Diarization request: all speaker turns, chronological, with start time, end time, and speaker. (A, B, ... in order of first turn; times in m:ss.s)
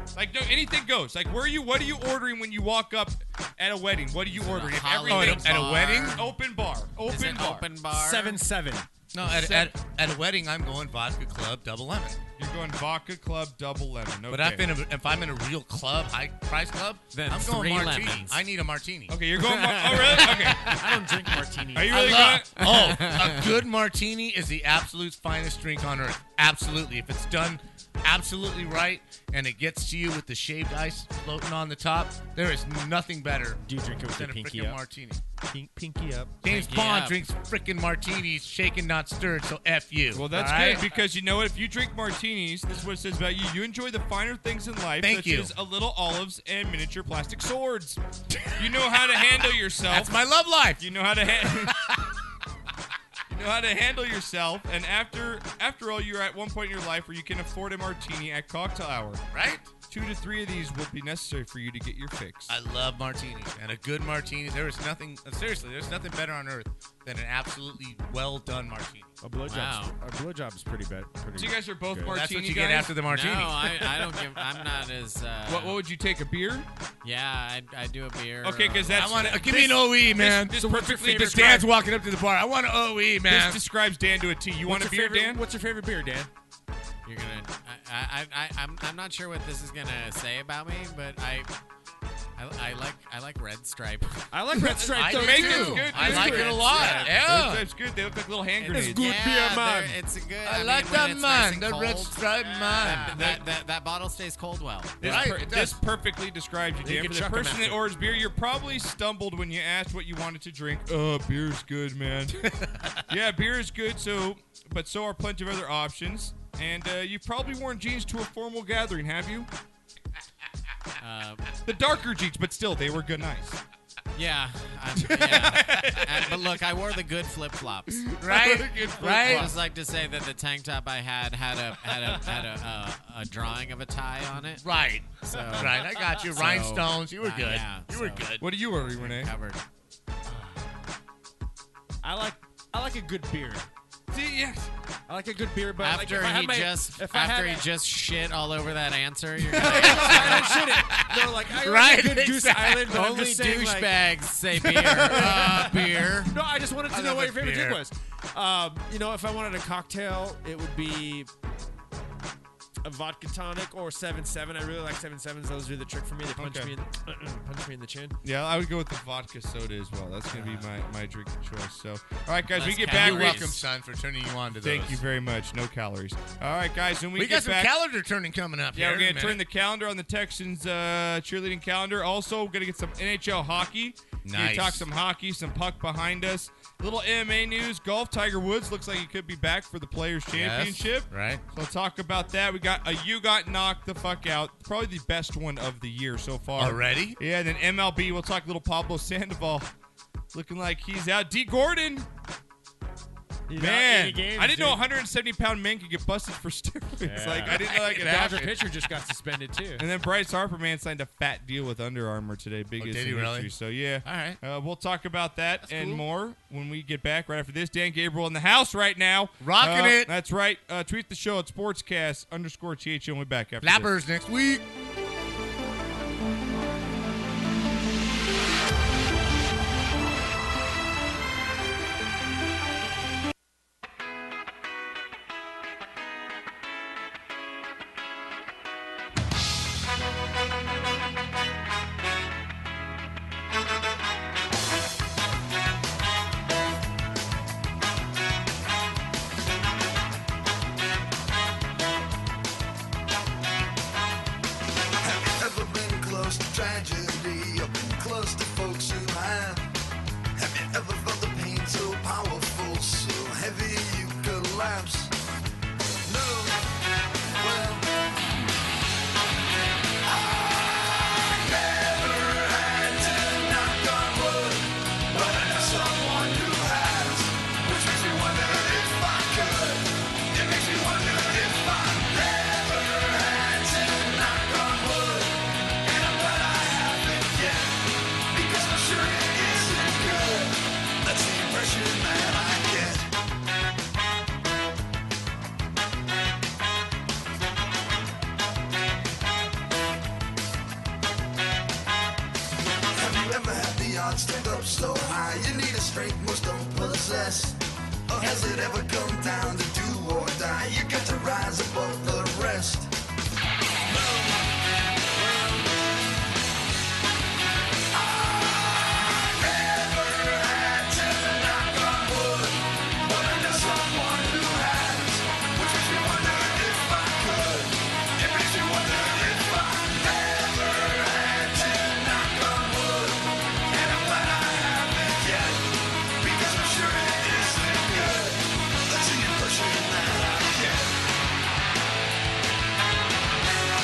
0:00.2-0:07.8 A
0:04.3-0:06.3 B
0:05.0-0:06.2 C
0:07.1-0:08.4 B
0:07.9-0:08.9 D
0:09.1-0:12.2 C
0:09.2-0:09.8 A
0:12.4-0:14.7 A
0:14.3-0:19.2 C
0:17.1-0:18.4 B
0:19.1-0:20.8 A
0:19.4-0:20.8 B
0:20.6-0:22.4 D
0:21.7-0:22.5 A
0:21.9-0:35.2 C
0:22.6-0:23.6 B
0:33.6-0:34.8 D
0:35.5-0:36.4 D
0:36.4-0:40.9 C
0:36.5-0:37.2 B
0:40.1-0:48.0 A
0:45.0-0:45.5 C
0:48.3-0:50.9 C
0:48.6-0:50.2 A
0:50.8-0:52.0 A
0:51.4-0:52.0 C
0:53.3-0:59.2 A
0:59.3-0:59.7 C
0:59.9-1:02.5 A
1:02.5-1:09.1 C
1:09.2-1:12.2 D
1:09.5-1:10.0 B
1:11.4-1:12.9 A
1:12.1-1:13.8 C
1:13.0-1:15.8 B
1:15.5-1:16.7 A
1:17.0-1:19.5 B
1:18.4-1:21.7 A
1:19.0-1:23.6 C
1:20.5-1:21.6 D
1:23.3-1:25.4 A
1:24.6-1:26.3 D
1:27.0-1:31.5 B
1:32.4-1:34.2 B
1:34.3-1:37.5 D
1:34.5-1:39.2 A
1:34.9-1:37.6 C
1:38.6-1:40.0 D
1:38.8-1:45.1 B
1:40.4-1:43.3 C
1:43.1-1:43.4 A
1:45.0-1:52.5 A
1:45.0-1:45.8 C
1:46.8-1:47.8 D
1:52.4-1:53.1 C
1:53.1-1:59.5 A
2:01.0-2:01.5 B
2:01.7-2:03.6 A
2:04.2-2:08.1 B
2:05.0-2:06.5 A
2:07.9-2:09.6 A
2:08.2-2:09.6 C
2:09.0-2:14.6 B
2:14.6-2:18.5 C
2:15.2-2:18.3 B
2:18.4-2:19.3 A
2:18.8-2:19.6 B
2:20.3-2:20.6 D
2:22.0-2:23.7 D
2:24.1-2:24.7 A
2:25.1-2:27.7 D
2:25.8-2:30.5 B
2:29.6-2:34.0 D
2:29.6-2:33.0 C
2:32.9-2:36.3 B
2:35.1-2:36.3 C
2:35.2-2:35.7 D
2:36.3-2:41.3 D
2:36.9-2:37.8 C
2:42.8-2:48.2 D
2:46.4-2:46.7 A
2:48.2-2:53.6 A
2:52.5-2:53.7 B
2:52.9-2:55.0 C
2:54.6-2:57.7 A
2:57.2-2:59.4 C
2:58.7-3:19.7 A
3:04.2-3:04.9 C
3:10.3-3:11.4 C
3:16.6-3:17.2 C
3:20.3-3:22.1 A
3:23.5-3:24.8 D
3:23.6-3:28.4 A
3:27.0-3:29.8 D
3:27.4-3:28.7 C
3:29.8-3:44.0 A
3:32.8-3:34.4 C
3:35.6-3:36.0 C
3:39.4-3:40.1 C
3:43.6-3:44.6 C
4:15.0-4:19.7 E
4:20.4-4:25.1 E
4:26.0-4:26.7 E
4:27.4-4:27.9 E
4:30.0-4:53.1 E
5:03.0-5:12.9 E
5:13.9-5:14.5 E
5:15.2-5:15.8 E
5:17.9-5:40.9 E